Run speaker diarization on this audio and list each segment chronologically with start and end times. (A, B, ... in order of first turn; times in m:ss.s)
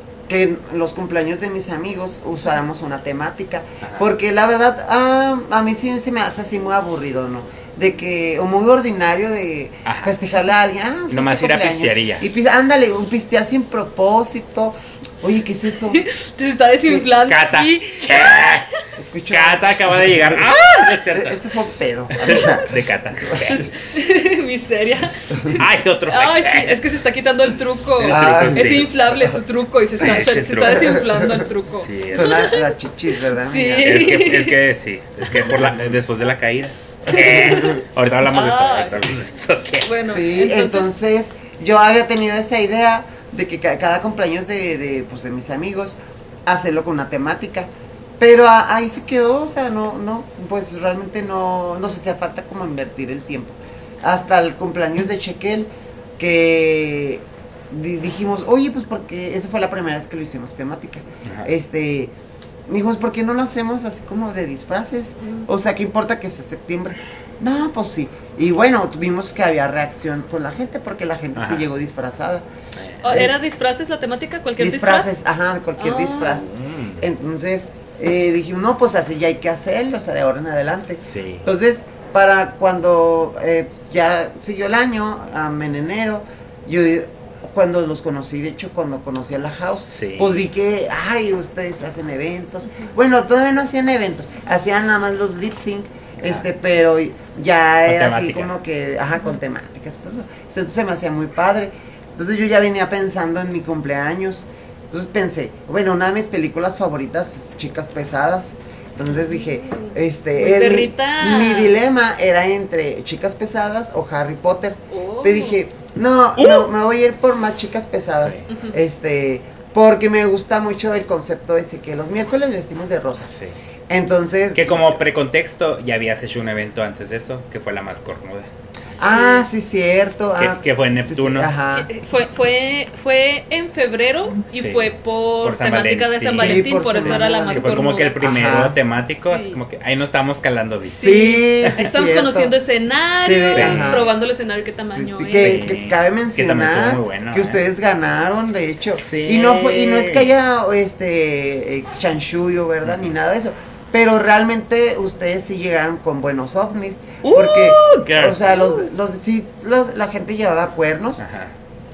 0:00.3-0:16.1 A
0:03.8-0:04.1 B
0:09.8-0:10.1 B
0:11.1-0:12.2 B
0:15.9-0:18.2 C
0:17.1-0:18.7 B
0:19.0-0:20.5 A
0:19.3-0:21.6 B
0:21.1-0:23.7 A
0:22.2-0:23.8 B
0:22.2-0:22.5 C
0:23.7-0:32.7 C
0:25.5-0:26.8 B
0:28.0-0:29.3 B
0:28.0-0:28.9 A
0:30.0-0:31.1 B
0:30.6-0:31.5 A
0:31.8-0:32.5 B
0:32.1-0:34.0 A
0:33.3-0:34.6 C
0:33.8-0:39.9 B
0:37.1-0:37.6 A
0:37.1-0:39.2 C
0:39.8-0:40.9 C
0:40.0-1:02.1 A
1:01.2-1:01.5 B
1:02.7-1:12.5 A
1:05.2-1:05.5 C
1:11.4-1:11.7 B
1:12.8-1:13.3 B
1:13.0-1:15.1 C
1:14.6-2:03.3 A
1:15.8-1:16.4 C
1:16.2-1:17.0 B
1:21.0-1:21.5 B
1:29.9-1:30.4 B
1:36.2-1:36.5 B
1:37.9-1:38.5 B
1:49.1-1:51.7 C
1:54.9-1:55.6 C
1:56.4-1:56.7 B
1:58.1-1:58.5 B
1:58.5-1:58.8 C
2:03.3-2:03.6 B
2:03.9-2:05.0 A
2:04.6-2:08.5 B
2:09.0-2:11.9 A
2:09.0-2:09.5 C
2:10.4-2:11.5 B
2:11.7-2:18.2 C
2:14.5-2:21.1 B
2:16.3-2:18.8 A
2:19.2-2:19.6 C
2:20.8-2:25.7 C
2:21.0-2:22.5 A
2:23.2-2:24.1 A
2:23.5-2:24.1 B
2:24.9-2:41.2 A
2:25.4-2:27.6 B
2:28.9-2:30.3 B
2:37.2-2:38.9 B
2:41.2-2:41.5 B